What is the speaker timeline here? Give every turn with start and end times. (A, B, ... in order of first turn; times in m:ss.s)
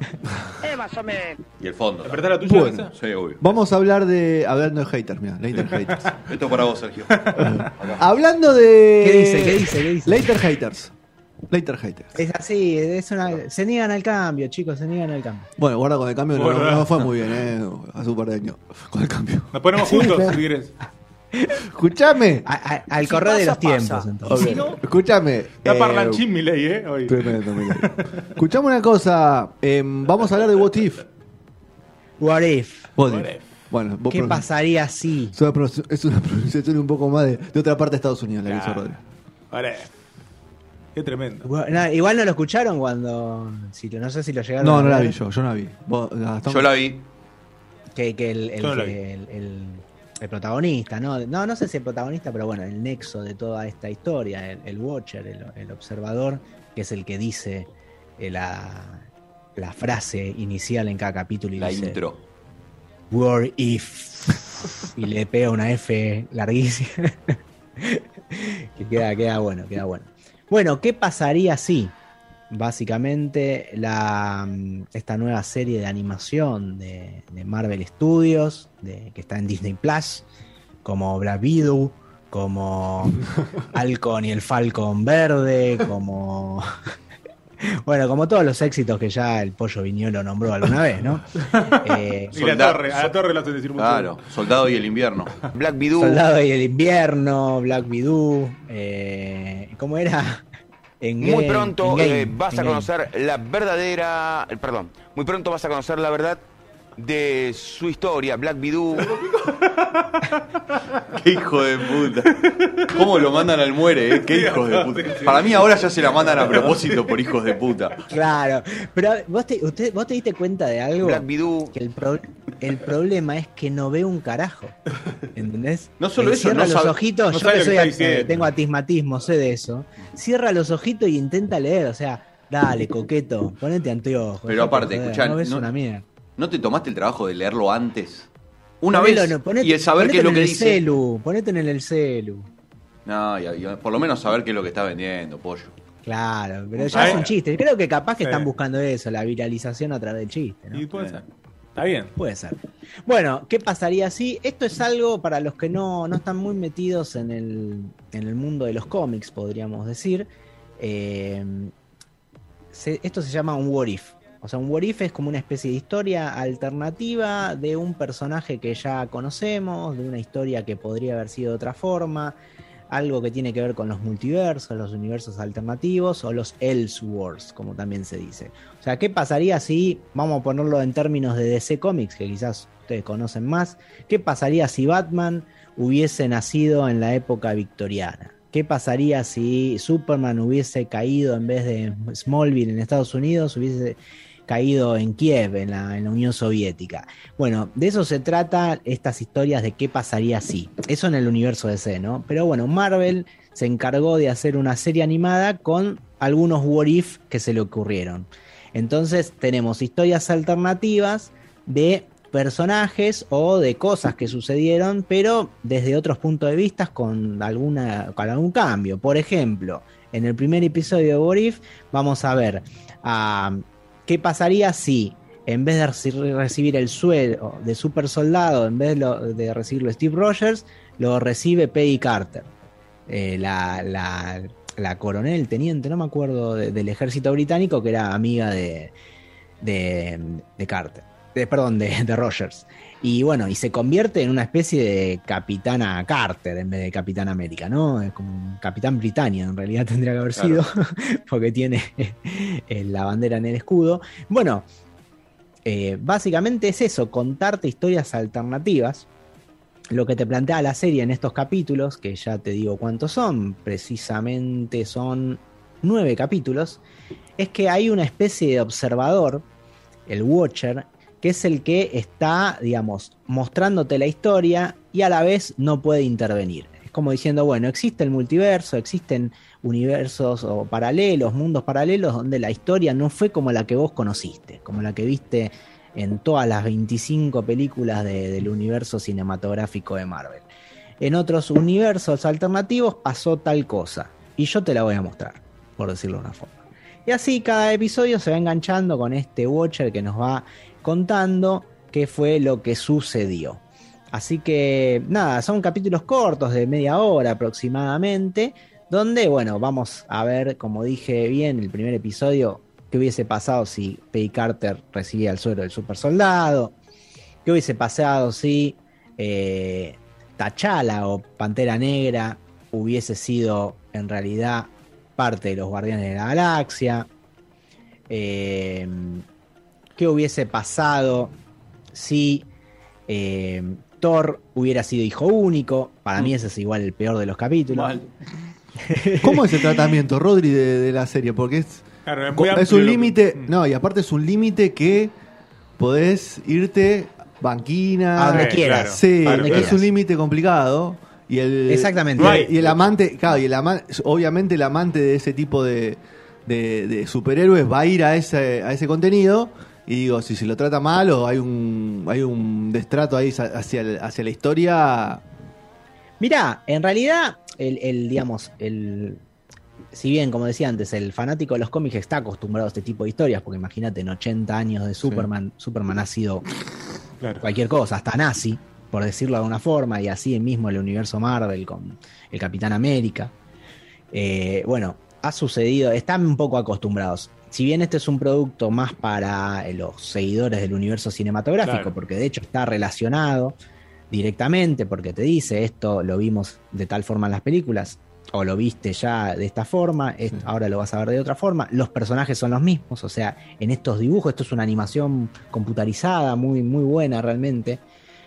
0:00.2-0:00.6 A
0:01.6-0:02.3 B
0:02.0-0:02.9 C
0:02.5-0:02.9 A
0:03.0-0:03.4 B
0:03.4-0:06.1 A
0:06.2-0:08.0 B
0:07.2-0:07.6 C
0:07.3-0:10.9 A
0:09.0-0:10.3 D
0:11.5-0:12.2 A
0:12.2-0:15.5 D
0:15.6-0:20.3 A
0:16.3-0:17.0 C
0:19.5-0:20.7 C
0:21.6-0:22.5 A
0:22.4-0:24.7 D
0:23.0-0:24.7 E
0:24.2-0:26.2 A
0:25.6-0:28.3 C
0:27.1-0:31.0 A
0:32.2-0:32.9 D
0:33.0-0:34.5 A
0:33.0-0:33.4 C
0:34.1-0:35.4 D
0:35.3-0:39.0 A
0:38.4-0:39.0 C
0:39.5-0:39.9 C
0:41.0-0:41.5 C
0:41.4-0:45.2 D
0:44.6-0:46.7 A
0:46.4-0:47.1 B
0:48.0-0:59.0 D
0:48.6-0:49.0 C
0:59.6-1:02.0 D
1:01.6-1:02.2 B
1:03.1-1:07.1 D
1:07.8-1:12.0 D
1:12.5-1:20.2 D
1:20.8-1:23.2 D
1:23.7-1:26.7 D
1:27.6-1:32.4 D
1:31.4-1:34.4 C
1:32.3-1:33.2 B
1:33.8-1:35.5 B
1:35.5-1:36.2 E
1:36.0-1:40.4 D
1:41.0-1:42.9 D
1:41.2-1:46.4 E
1:47.0-1:49.1 E
1:49.2-1:50.8 C
1:51.1-1:58.0 B
1:52.4-1:53.4 C
1:54.2-1:57.0 C
1:58.1-2:04.8 D
2:01.0-2:01.7 E
2:05.4-2:16.0 D
2:06.0-2:07.0 B
2:07.3-2:08.5 C
2:14.5-2:15.7 B
2:16.4-2:18.3 B
2:18.8-2:20.9 B
2:18.9-2:22.5 D
2:23.1-2:25.7 B
2:26.0-2:30.8 D
2:26.8-2:27.3 B
2:26.9-2:27.3 C
2:28.2-2:28.5 C
2:30.7-2:31.3 C
2:30.9-2:31.2 B
2:31.8-2:32.1 C
2:32.2-2:41.7 D
2:42.7-2:52.4 D
2:52.9-3:52.5 D
3:53.1-3:58.9 D
3:59.6-4:14.6 D
4:10.4-4:10.6 B
4:15.6-4:19.1 D
4:19.9-4:26.8 D
4:27.4-4:29.4 D
4:30.1-4:50.5 D
4:51.0-5:16.8 D
5:17.4-5:27.1 D
5:28.1-5:29.2 D
5:30.0-5:31.3 D
5:31.9-5:32.5 D
5:33.1-5:38.0 D
5:37.7-5:38.1 B
5:38.8-5:39.7 D
5:39.2-5:45.1 A
5:42.1-5:43.5 C
5:45.8-6:05.2 A
5:48.2-5:49.9 D
5:48.3-5:49.7 C
5:51.7-5:52.4 D
5:52.2-5:52.6 C
6:06.2-6:09.2 D
6:09.9-6:16.4 D
6:17.4-6:23.3 D
6:24.1-6:33.6 D
6:31.6-6:31.9 C
6:34.1-6:47.8 D